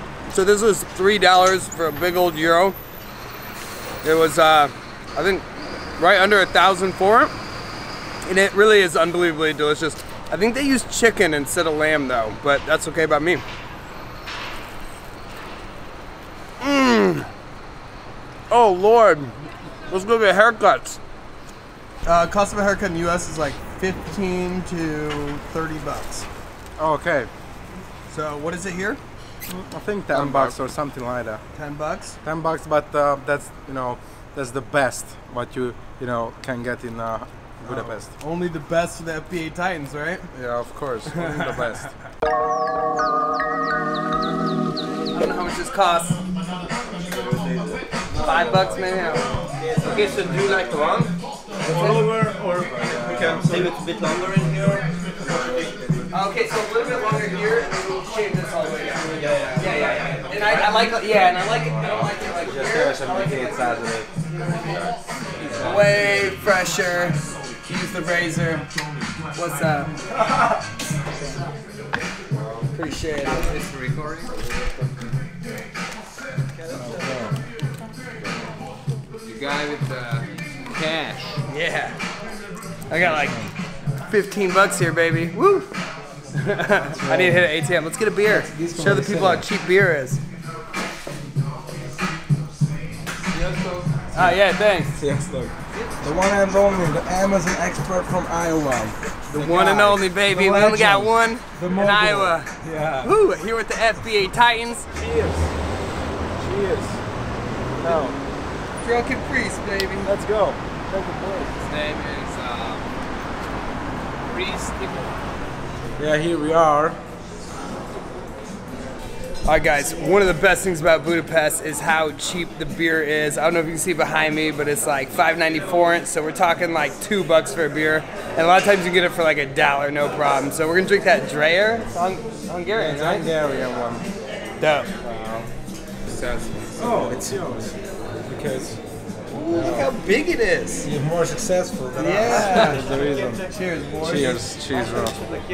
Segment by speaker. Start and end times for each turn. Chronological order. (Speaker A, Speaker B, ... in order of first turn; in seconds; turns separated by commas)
Speaker A: 0.3-2.8, Speaker A: 4.0-5.5, Speaker A: 6.0-7.3, Speaker A: 8.2-13.4, Speaker A: 16.6-17.3, Speaker A: 18.5-19.4, Speaker A: 19.9-21.0, Speaker A: 22.1-26.3, Speaker B: 26.8-27.3, Speaker A: 28.1-29.0, Speaker B: 29.5-31.4, Speaker A: 30.1-30.6, Speaker A: 31.5-32.2, Speaker B: 32.2-38.1, Speaker A: 37.6-40.3, Speaker B: 40.3-41.9, Speaker A: 41.1-41.9, Speaker A: 45.1-46.2, Speaker B: 48.1-48.5, Speaker A: 48.1-49.2, Speaker C: 49.8-50.9, Speaker B: 50.0-50.5, Speaker A: 51.6-52.1, Speaker B: 51.7-54.6, Speaker D: 52.1-52.5, Speaker D: 53.7-54.8, Speaker B: 55.2-56.0, Speaker A: 56.1-63.9, Speaker D: 59.4-59.7, Speaker B: 62.5-64.0, Speaker C: 65.4-66.2, Speaker A: 65.5-68.7, Speaker A: 69.3-69.9, Speaker A: 72.7-73.5, Speaker C: 73.2-74.3, Speaker B: 76.7-77.4, Speaker C: 79.2-81.3, Speaker A: 81.5-82.0, Speaker A: 82.9-83.4, Speaker B: 83.0-83.5, Speaker A: 84.1-85.7, Speaker A: 86.3-90.2, Speaker B: 86.9-87.5, Speaker B: 88.2-89.4, Speaker C: 93.3-93.9, Speaker A: 94.1-95.0, Speaker B: 94.1-94.4, Speaker B: 95.0-103.1, Speaker A: 99.3-104.9, Speaker B: 104.9-105.5, Speaker B: 106.4-107.0, Speaker B: 107.8-108.2, Speaker A: 108.8-110.1, Speaker B: 110.0-111.5, Speaker C: 111.6-112.9, Speaker C: 114.2-115.1, Speaker B: 116.0-117.0, Speaker A: 119.4-133.3, Speaker B: 132.7-134.1, Speaker A: 134.6-134.9, Speaker C: 135.0-135.4, Speaker C: 136.1-137.2, Speaker B: 136.8-138.8, Speaker A: 139.3-140.9, Speaker B: 139.4-139.9, Speaker B: 140.8-143.4, Speaker A: 141.9-142.8, Speaker A: 143.5-144.4, Speaker B: 144.0-145.2